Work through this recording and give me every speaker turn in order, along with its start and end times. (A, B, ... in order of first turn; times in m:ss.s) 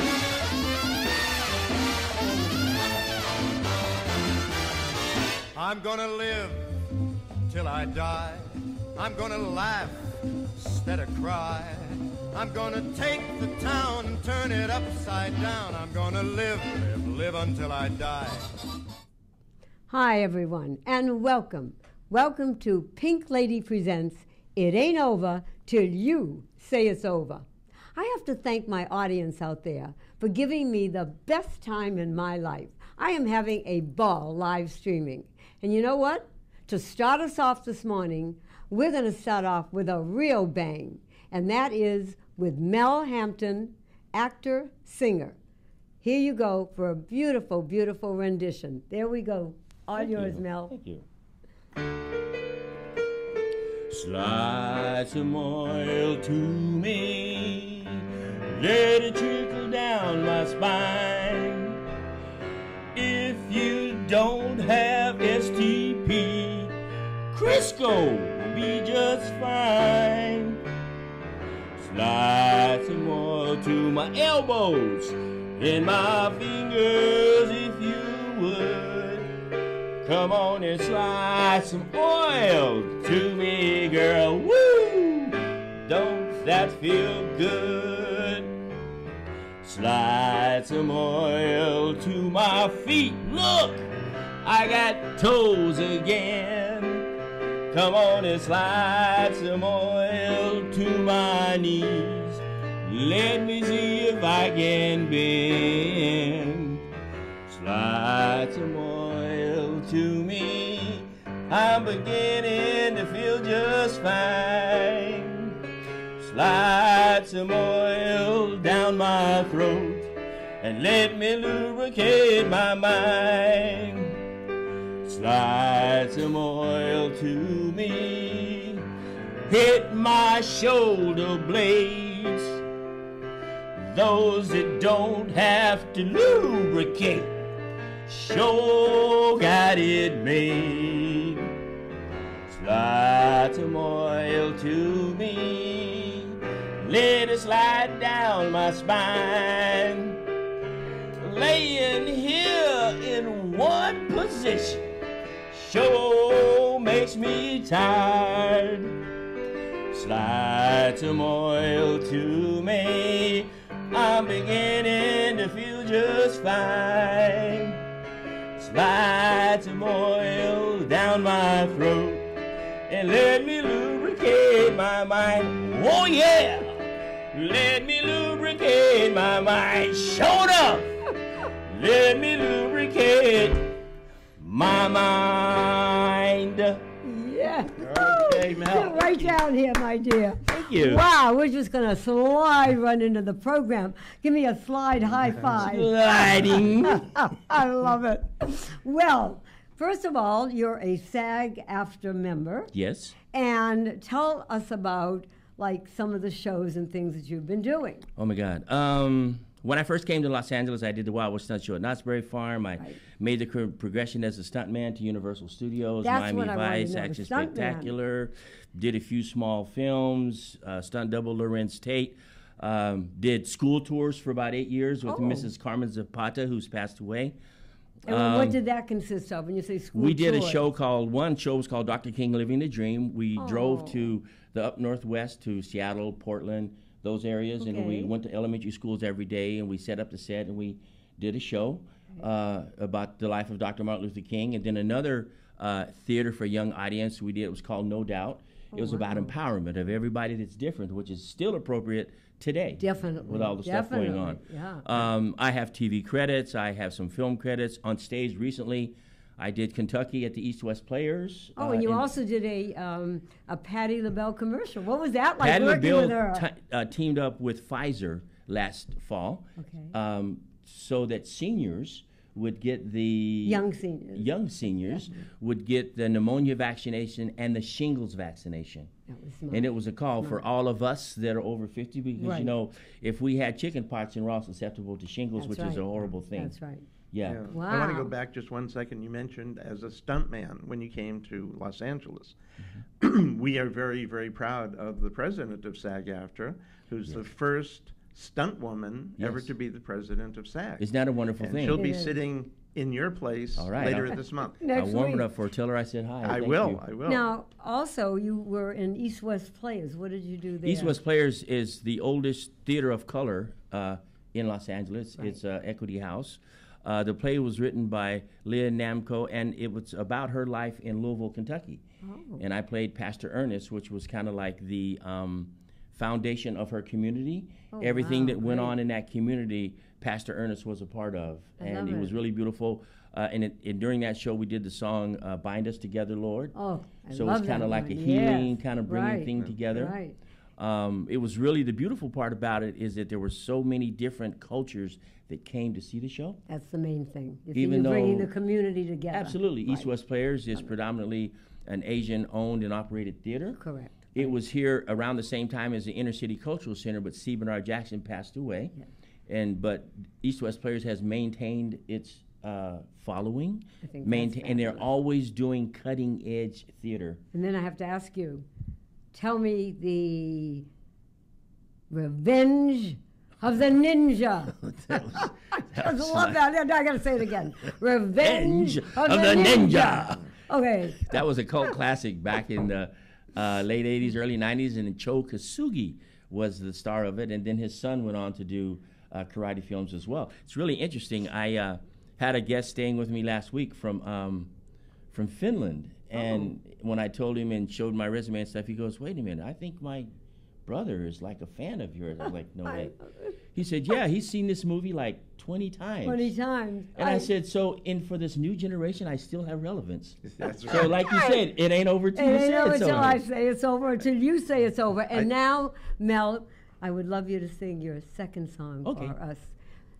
0:05.5-0:06.7 A
0:07.5-0:09.9 A
0:10.6-0:18.4 A
0:19.9-0:45.4 B
0:46.0-0:50.7 B
0:50.0-0:51.0 C
0:53.9-1:01.8 C
1:02.9-1:06.7 C
1:07.3-1:10.6 C
1:11.8-1:19.3 C
1:20.0-1:28.5 C
1:29.6-1:33.9 C
1:34.4-1:37.1 C
1:37.7-1:46.8 C
1:47.5-1:55.5 C
1:56.2-2:04.2 C
2:05.0-2:08.8 C
2:09.5-2:12.6 C
2:13.8-2:17.3 C
2:18.1-2:21.5 C
2:22.5-2:30.2 C
2:31.2-2:34.8 C
2:35.5-2:38.9 C
2:39.9-2:47.8 C
2:48.6-2:52.3 C
2:52.9-2:56.8 C
2:57.3-3:00.9 C
3:01.7-3:03.7 C
3:04.4-3:06.8 C
3:07.0-3:15.9 B
3:07.8-3:09.3 D
3:10.5-3:11.0 C
3:15.6-3:17.1 C
3:16.8-3:22.7 B
3:22.7-3:23.2 C
3:23.3-3:28.1 B
3:28.2-3:47.4 C
3:36.0-3:37.9 B
3:45.0-3:45.5 B
3:48.1-3:48.6 C
3:48.1-3:50.6 B
3:49.9-4:22.1 C
3:53.4-3:54.1 B
3:57.6-3:58.1 B
4:08.7-4:09.3 B
4:12.8-4:14.8 B
4:21.6-4:26.4 B
4:25.4-4:38.9 C
4:29.6-4:29.9 B
4:33.4-4:35.1 B
4:39.1-4:40.4 B
4:39.5-4:46.5 C
4:42.2-4:42.5 B
4:45.4-4:46.8 B
4:47.1-4:47.4 C
4:47.2-4:52.4 D
4:47.5-4:48.1 B
4:53.0-5:00.8 D
4:59.2-4:59.5 C
5:00.8-5:01.8 C
5:01.4-5:04.6 D
5:01.7-5:02.2 B
5:03.6-5:04.2 C
5:04.6-5:05.3 B
5:04.7-5:06.8 C
5:06.2-5:07.3 D
5:07.0-5:11.0 B
5:10.6-5:21.8 C
5:22.0-5:22.4 B
5:22.4-5:36.5 C
5:27.7-5:28.7 B
5:31.6-5:32.1 B
5:36.5-5:40.2 B
5:37.1-5:40.0 C
5:40.6-5:46.4 C
5:46.5-5:49.9 B
5:47.5-5:48.3 C
5:49.1-5:53.6 C
5:53.6-5:54.3 B
5:54.1-5:58.7 C
5:59.3-6:07.2 C
6:03.8-6:04.9 B
6:07.3-6:08.4 B
6:09.1-6:10.6 B
6:11.9-6:14.6 B
6:14.6-6:16.4 C
6:15.2-6:21.2 B
6:18.2-6:20.2 C
6:21.1-6:34.5 C
6:35.1-6:40.1 C
6:36.2-6:36.5 B
6:40.6-6:43.0 C
6:42.6-6:43.3 B
6:43.5-6:46.3 C
6:46.0-6:47.3 B
6:47.0-6:53.2 C
6:50.3-6:51.0 D
6:51.1-6:51.4 B
6:52.1-6:59.5 B
6:58.8-6:59.1 C